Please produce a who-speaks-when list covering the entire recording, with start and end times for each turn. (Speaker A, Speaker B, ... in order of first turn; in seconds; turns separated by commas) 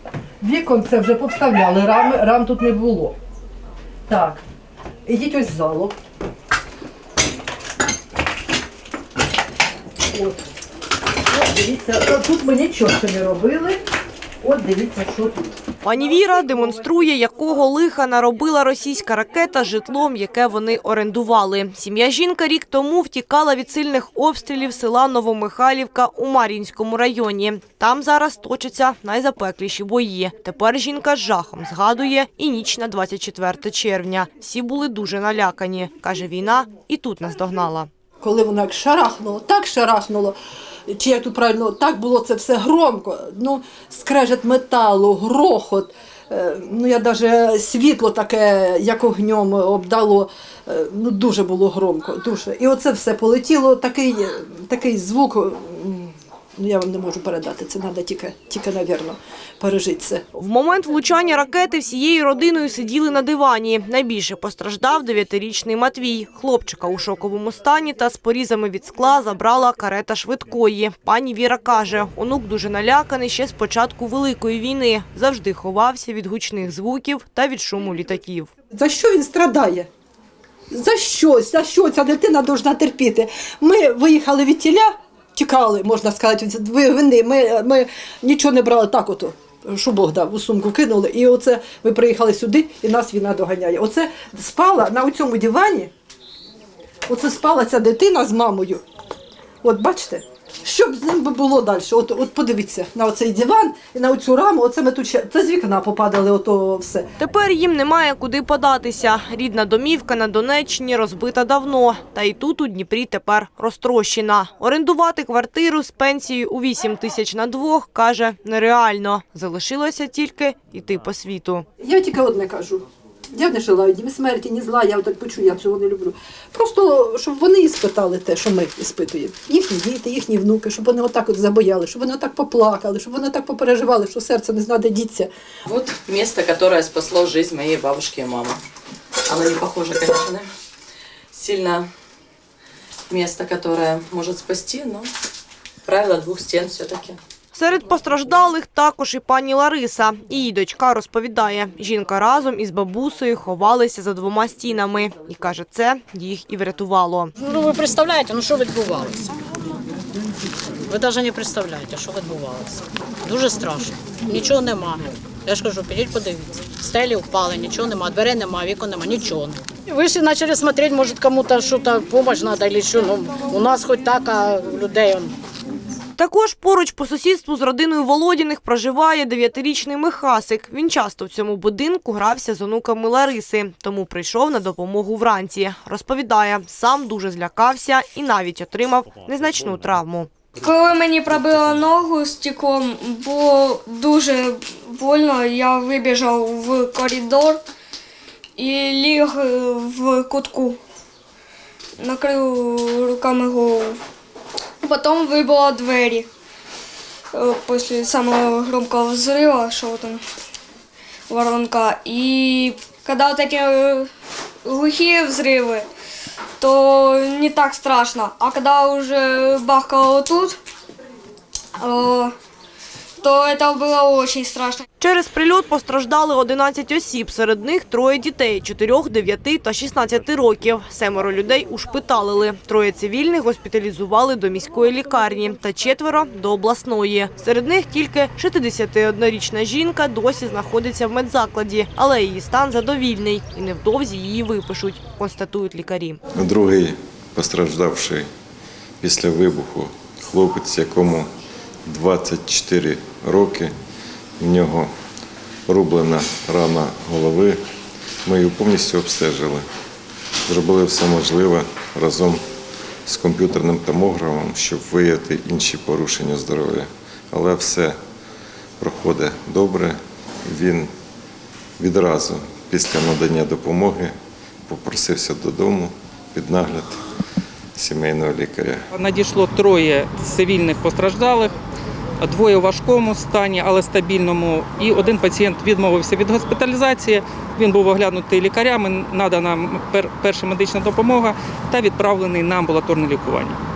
Speaker A: 0.4-3.1, Speaker A: 4.1-4.4, Speaker A: 5.0-6.0, Speaker A: 10.1-10.4, Speaker A: 11.3-13.8, Speaker A: 14.4-15.5, Speaker B: 15.8-37.9, Speaker A: 38.2-40.4, Speaker A: 40.9-60.2, Speaker B: 60.4-78.5, Speaker A: 78.7-79.9, Speaker A: 80.7-95.9, Speaker A: 97.1-98.8, Speaker A: 99.6-107.1, Speaker B: 107.2-121.7, Speaker A: 121.8-135.3, Speaker C: 135.7-138.6, Speaker C: 139.2-140.5, Speaker C: 141.3-141.9, Speaker C: 143.1-145.1, Speaker C: 145.8-147.2, Speaker B: 147.5-157.3, Speaker D: 157.4-159.2, Speaker D: 160.9-175.3, Speaker B: 176.2-190.3, Speaker E: 190.6-197.6, Speaker E: 198.6-200.8, Speaker E: 202.0-204.0, Speaker E: 204.8-206.3, Speaker E: 207.3-210.2, Speaker E: 211.3-214.1, Speaker E: 214.6-215.9, Speaker E: 216.6-220.6, Speaker E: 221.8-222.3, Speaker E: 223.2-224.8, Speaker B: 225.0-246.2, Speaker F: 246.3-248.3, Speaker F: 249.0-251.2, Speaker F: 251.9-253.7, Speaker F: 254.4-254.9, Speaker F: 255.7-257.6, Speaker F: 258.2-259.6, Speaker F: 260.5-262.4, Speaker F: 263.1-267.9, Speaker F: 268.8-270.9, Speaker F: 271.8-274.1, Speaker F: 274.7-276.9, Speaker F: 277.8-278.8, Speaker G: 278.9-281.5, Speaker G: 282.2-293.6